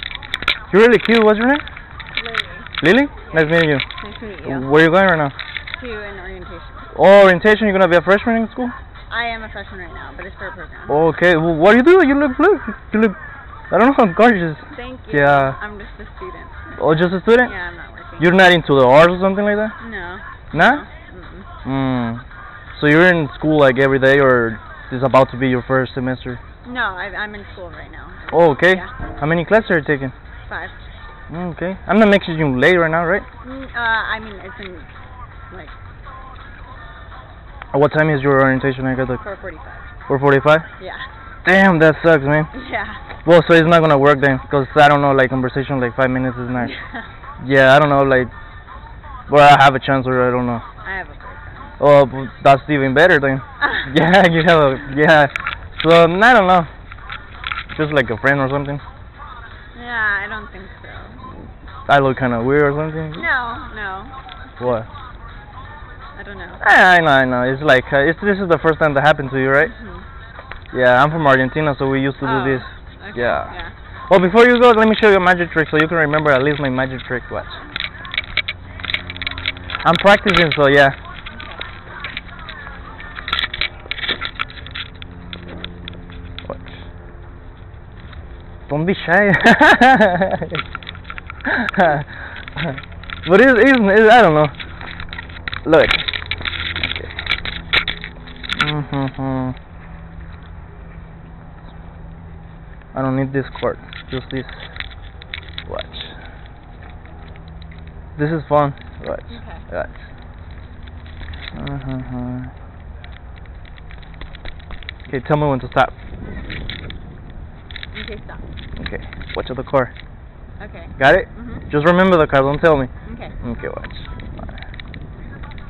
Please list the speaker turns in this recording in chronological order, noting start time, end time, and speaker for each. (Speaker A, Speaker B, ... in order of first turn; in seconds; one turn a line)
Speaker A: 0.7-1.6
Speaker B: 2.1-2.7
Speaker A: 2.8-3.9
Speaker B: 3.3-4.7
Speaker A: 4.4-5.3
Speaker B: 5.8-6.9
Speaker A: 6.9-8.7
Speaker B: 9.1-11.0
Speaker A: 10.9-13.2
Speaker A: 13.7-15.6
Speaker B: 14.7-18.4
Speaker A: 16.8-17.5
Speaker A: 18.2-19.7
Speaker B: 19.8-21.5
Speaker A: 20.5-20.9
Speaker A: 21.6-22.2
Speaker A: 22.7-26.4
Speaker B: 26.6-28.9
Speaker A: 28.3-30.1
Speaker B: 30.5-30.8
Speaker A: 31.3-33.3
Speaker B: 33.4-34.9
Speaker A: 37.7-39.2
Speaker B: 39.2-39.9
Speaker A: 40.1-40.7
Speaker B: 40.8-41.1
Speaker A: 41.4-42.5
Speaker B: 42.5-43.0
Speaker A: 43.2-46.8
Speaker B: 46.6-47.0
Speaker A: 47.4-48.3
Speaker A: 49.3-50.6
Speaker B: 50.8-51.7
Speaker A: 51.8-56.7
Speaker B: 53.6-53.9
Speaker A: 57.7-58.8
Speaker B: 59.7-61.2
Speaker A: 61.9-63.3
Speaker B: 63.2-64.2
Speaker A: 64.6-64.9
Speaker B: 66.2-66.6
Speaker A: 66.6-69.7
Speaker B: 69.6-70.0
Speaker A: 70.7-73.5
Speaker B: 72.2-73.7
Speaker A: 74.1-77.6
Speaker A: 79.8-81.0
Speaker B: 81.3-81.6
Speaker A: 88.7-90.6
Speaker A: 91.5-92.1
Speaker A: 93.2-94.5
Speaker A: 95.7-96.1
Speaker A: 96.8-97.1
Speaker A: 98.5-99.6
Speaker A: 102.9-104.6
Speaker A: 105.7-106.2
Speaker A: 108.2-110.0
Speaker B: 109.3-109.7
Speaker A: 111.5-112.5
Speaker A: 115.1-115.9
Speaker B: 117.9-118.5
Speaker A: 118.8-119.9
Speaker B: 120.6-121.7
Speaker A: 121.0-122.9
Speaker B: 123.0-123.4
Speaker A: 123.4-124.5